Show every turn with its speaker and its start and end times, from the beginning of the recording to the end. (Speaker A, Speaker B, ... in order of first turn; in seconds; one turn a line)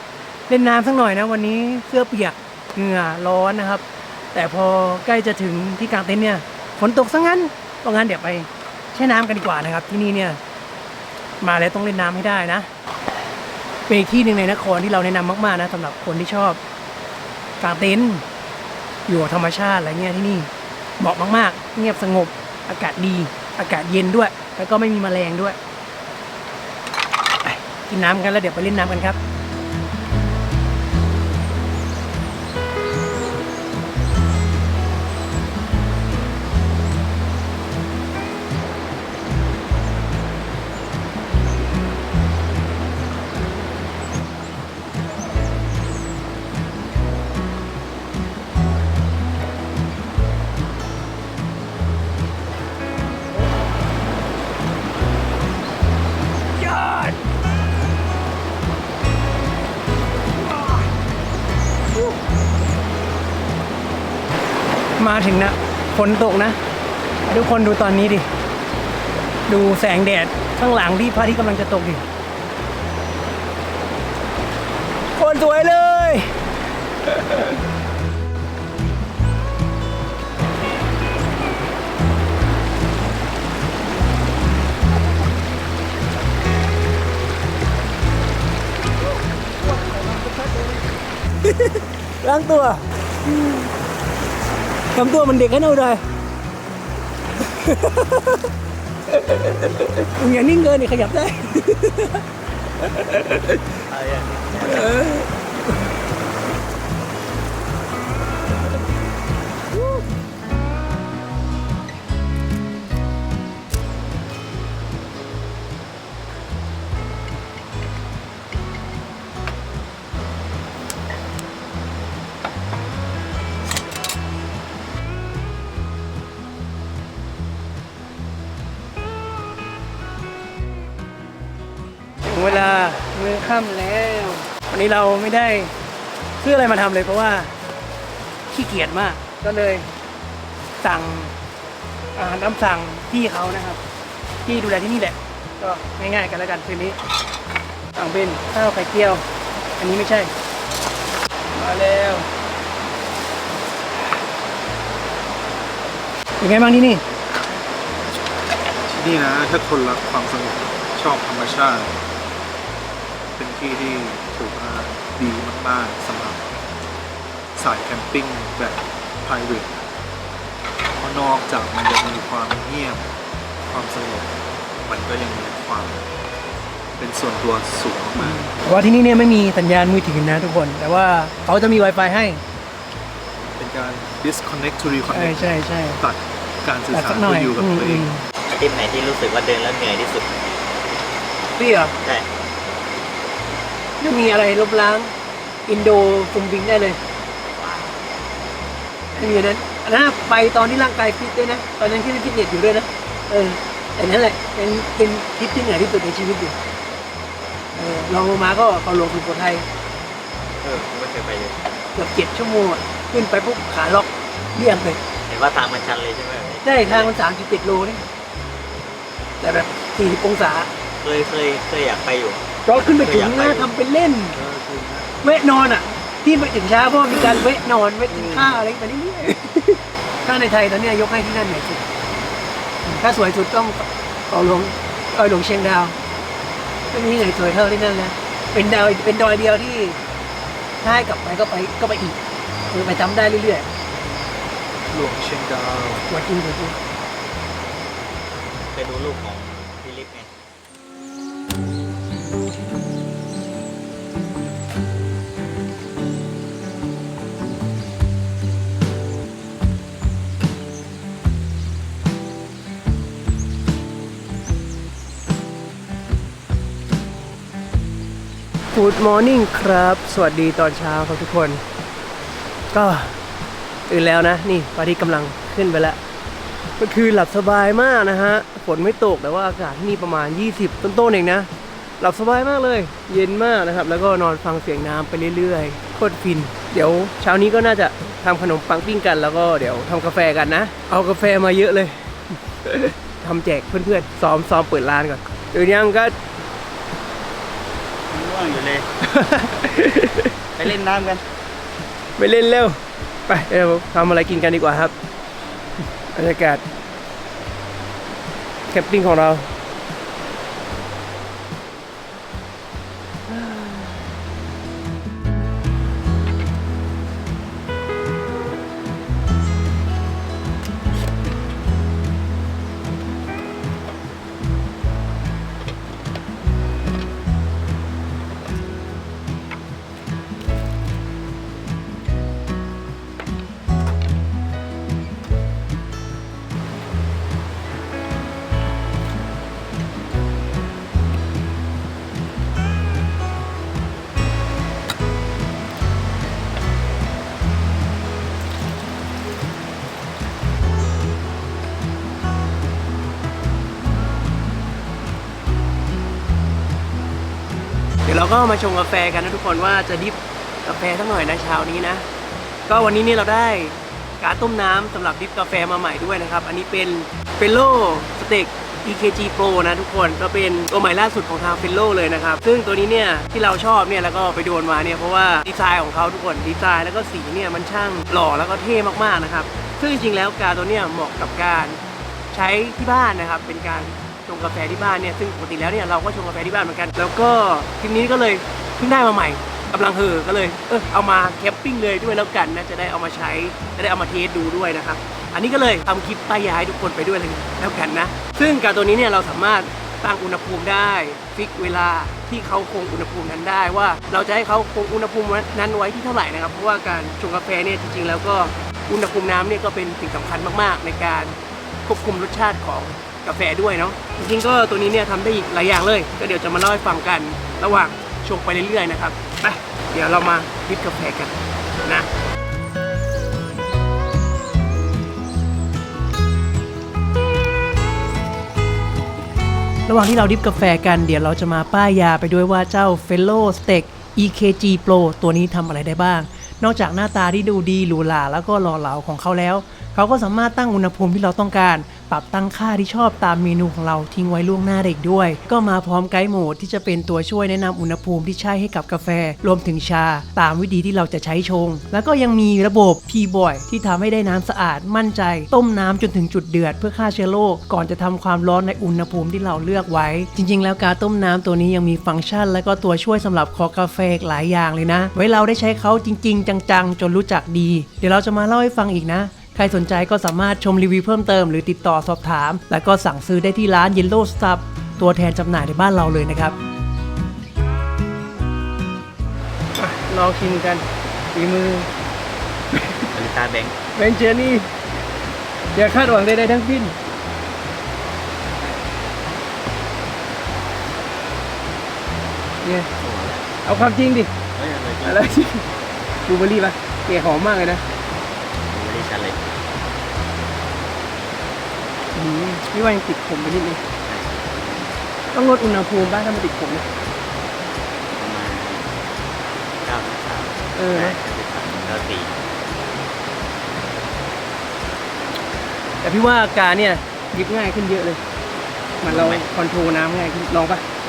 Speaker A: 0.5-10.4
Speaker A: 11.4-12.7
Speaker A: 13.9-16.6
Speaker A: 17.6-18.2
Speaker A: 19.1-25.6
Speaker A: 27.4-29.2
Speaker A: 56.6-57.2
Speaker A: 65.0-66.6
Speaker A: 67.3-68.3
Speaker A: 69.5-72.0
Speaker A: 75.2-76.3
Speaker A: 77.1-77.5
Speaker A: 89.6-90.9
Speaker A: 91.4-93.7
Speaker A: 94.9-96.0
Speaker A: 97.4-98.5
Speaker A: 99.1-102.2
Speaker A: 102.8-103.7
Speaker B: 103.9-104.9
Speaker A: 104.6-105.8
Speaker A: 132.2-135.7
Speaker A: 136.4-137.5
Speaker A: 138.5-139.9
Speaker A: 140.8-141.3
Speaker A: 142.2-143.8
Speaker A: 144.4-147.0
Speaker A: 148.0-149.2
Speaker A: 149.8-150.3
Speaker A: 151.6-152.3
Speaker A: 156.4-157.0
Speaker C: 158.9-161.9
Speaker C: 163.4-166.4
Speaker C: 167.6-169.8
Speaker C: 171.0-173.1
Speaker C: 173.7-174.3
Speaker C: 174.8-176.0
Speaker C: 177.0-178.5
Speaker A: 178.2-182.4
Speaker C: 183.6-185.4
Speaker A: 185.1-186.0
Speaker C: 186.0-188.1
Speaker A: 186.9-188.2
Speaker B: 188.5-190.3
Speaker A: 191.6-191.9
Speaker A: 194.0-195.1
Speaker A: 195.7-197.0
Speaker A: 199.2-206.6
Speaker A: 207.8-209.7
Speaker B: 210.6-211.6
Speaker A: 211.9-215.0
Speaker B: 215.3-217.1
Speaker A: 216.6-218.0
Speaker A: 219.4-220.7
Speaker B: 221.0-223.7
Speaker A: 222.7-224.4
Speaker C: 224.3-225.1
Speaker A: 225.2-231.8
Speaker A: 232.8-236.0
Speaker A: 236.9-240.0
Speaker A: 240.8-242.2
Speaker A: 242.7-243.7
Speaker C: 244.9-246.1
Speaker A: 246.1-246.8
Speaker B: 248.3-250.3
Speaker A: 268.7-271.6
Speaker A: 272.7-273.2
Speaker A: 273.9-276.0
Speaker A: 276.8-281.5
Speaker A: 282.0-296.1
Speaker B: 298.1-298.9
Speaker A: 299.1-300.3
Speaker B: 300.6-301.2
Speaker A: 302.2-304.9
Speaker A: 306.1-306.6
Speaker A: 308.7-309.5
Speaker A: 313.3-313.9
Speaker A: 358.1-362.1
Speaker A: 362.7-381.8
Speaker A: 382.3-422.1
Speaker A: 429.9-476.6
Speaker A: 479.8-481.9
Speaker A: 482.7-483.0
Speaker B: 483.1-483.8
Speaker A: 483.9-484.7
Speaker A: 485.8-487.0
Speaker A: 492.6-492.9
Speaker B: 493.0-493.5
Speaker A: 493.6-494.3
Speaker B: 494.6-495.3
Speaker A: 495.0-495.6
Speaker A: 496.2-497.8
Speaker B: 498.7-499.6
Speaker A: 502.1-503.8
Speaker B: 504.1-504.9
Speaker A: 505.3-506.9
Speaker B: 508.2-509.0
Speaker B: 509.8-512.4
Speaker A: 510.8-511.2
Speaker A: 516.0-518.2
Speaker A: 519.0-520.8
Speaker B: 519.0-519.5